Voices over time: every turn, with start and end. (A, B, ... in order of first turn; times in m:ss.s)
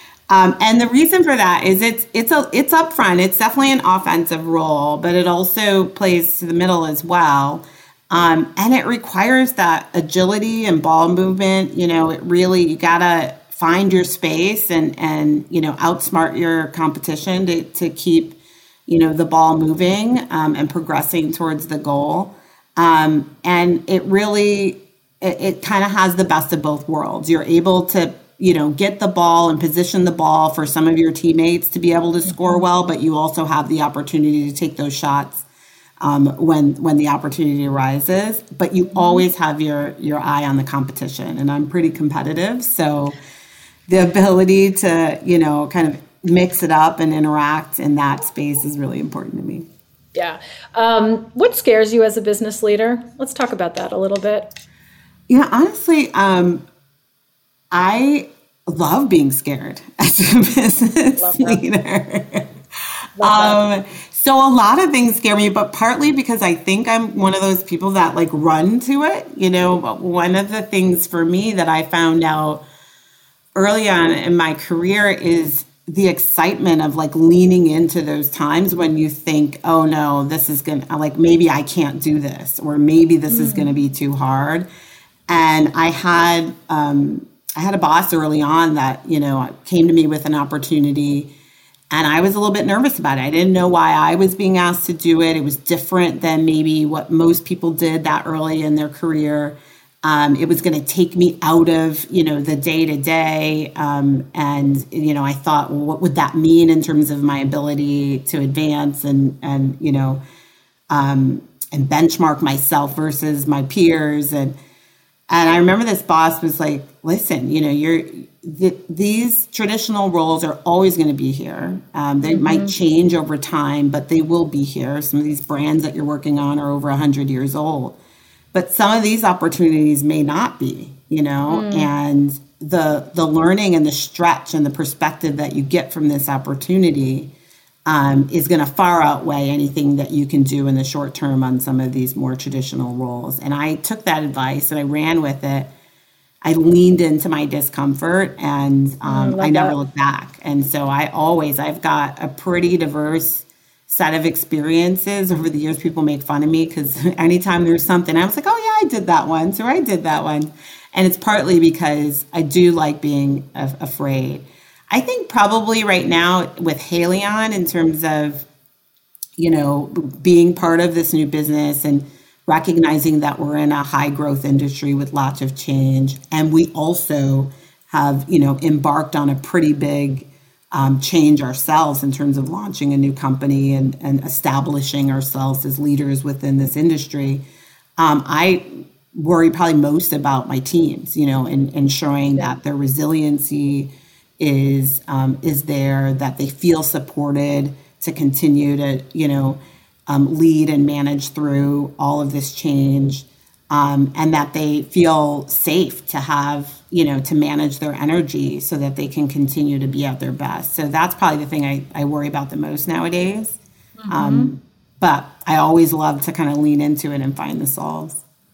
0:00.3-0:35.4 A
0:36.0-0:43.2 A
0:43.9-0:49.7 A
0:50.1-0:54.5 B
0:55.3-0:56.6 A
0:57.7-1:02.5 A
1:01.2-1:01.6 B
1:03.2-1:03.6 B
1:03.2-1:12.6 A
1:13.5-1:24.7 A
1:23.3-1:23.7 B
1:25.3-1:31.3 A
1:31.9-1:50.2 A
1:50.9-1:54.6 A
1:55.3-2:08.0 A
2:02.2-2:02.7 B
2:08.5-2:17.3 A
2:11.5-2:11.9 B
2:17.8-2:25.7 A
2:26.4-2:48.4 A
2:29.0-2:29.8 B
2:49.4-3:07.4 A
3:08.0-3:38.2 A
3:34.0-3:34.5 B